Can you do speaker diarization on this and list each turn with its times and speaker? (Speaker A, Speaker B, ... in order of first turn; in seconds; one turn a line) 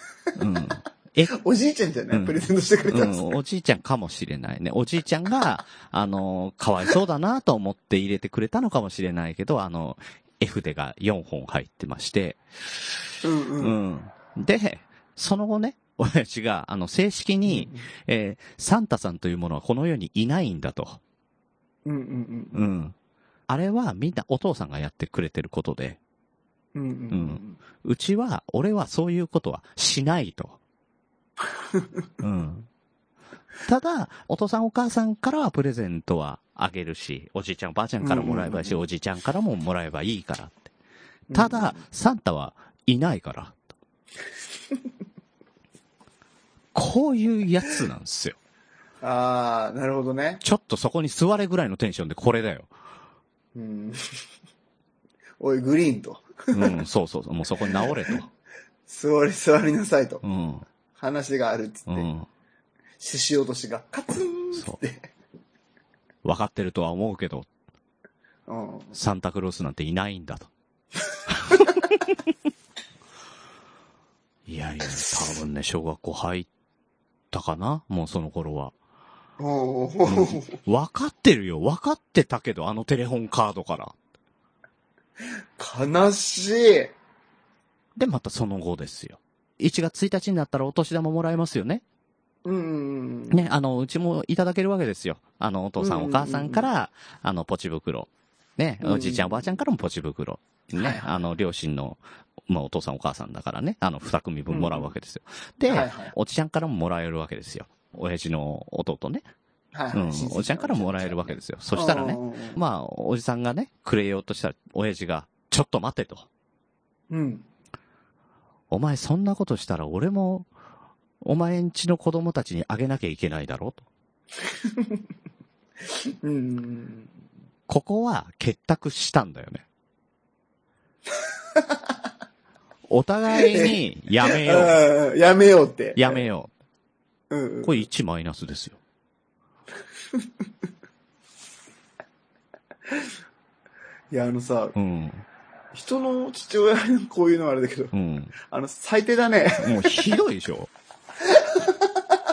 Speaker A: 0.4-1.4
Speaker B: 1.3-3.4
Speaker A: 2.1-13.0
Speaker B: 13.2-13.8
Speaker A: 13.6-21.0
Speaker B: 17.5-17.9
Speaker B: 21.9-22.7
Speaker A: 22.5-22.9
Speaker A: 23.5-26.0
Speaker B: 26.8-27.6
Speaker A: 27.1-30.6
Speaker A: 32.2-32.7
Speaker A: 33.6-40.7
Speaker B: 38.0-38.8
Speaker B: 41.3-41.8
Speaker A: 41.3-43.7
Speaker A: 46.7-48.4
Speaker B: 49.0-50.4
Speaker A: 50.4-52.7
Speaker B: 53.5-54.0
Speaker B: 55.4-56.8
Speaker A: 56.5-58.3
Speaker B: 57.7-58.2
Speaker B: 58.9-60.2
Speaker A: 60.2-60.6
Speaker B: 61.0-62.1
Speaker A: 61.9-62.3
Speaker B: 63.0-65.1
Speaker A: 66.2-67.5
Speaker B: 68.5-69.0
Speaker A: 68.9-70.5
Speaker A: 71.3-72.1
Speaker A: 74.5-76.5
Speaker A: 77.3-78.7
Speaker B: 79.4-80.6
Speaker A: 80.1-84.0
Speaker B: 85.6-86.9
Speaker A: 88.0-91.8
Speaker B: 92.5-93.5
Speaker A: 93.3-109.3
Speaker B: 95.8-96.7
Speaker B: 98.8-99.5
Speaker B: 100.7-101.1
Speaker B: 104.5-104.9
Speaker B: 105.7-106.1
Speaker B: 109.7-112.6
Speaker A: 109.9-116.3
Speaker B: 117.1-117.5
Speaker A: 118.7-120.5
Speaker A: 121.2-123.9
Speaker B: 124.7-125.0
Speaker B: 126.2-127.1
Speaker A: 127.7-129.7
Speaker A: 132.9-134.8
Speaker B: 133.4-136.3
Speaker A: 136.0-136.5
Speaker B: 137.3-137.8
Speaker A: 137.6-138.8
Speaker B: 144.1-144.8
Speaker A: 144.8-145.2
Speaker B: 145.7-149.9
Speaker A: 147.9-148.3
Speaker A: 149.6-150.7
Speaker B: 151.2-152.1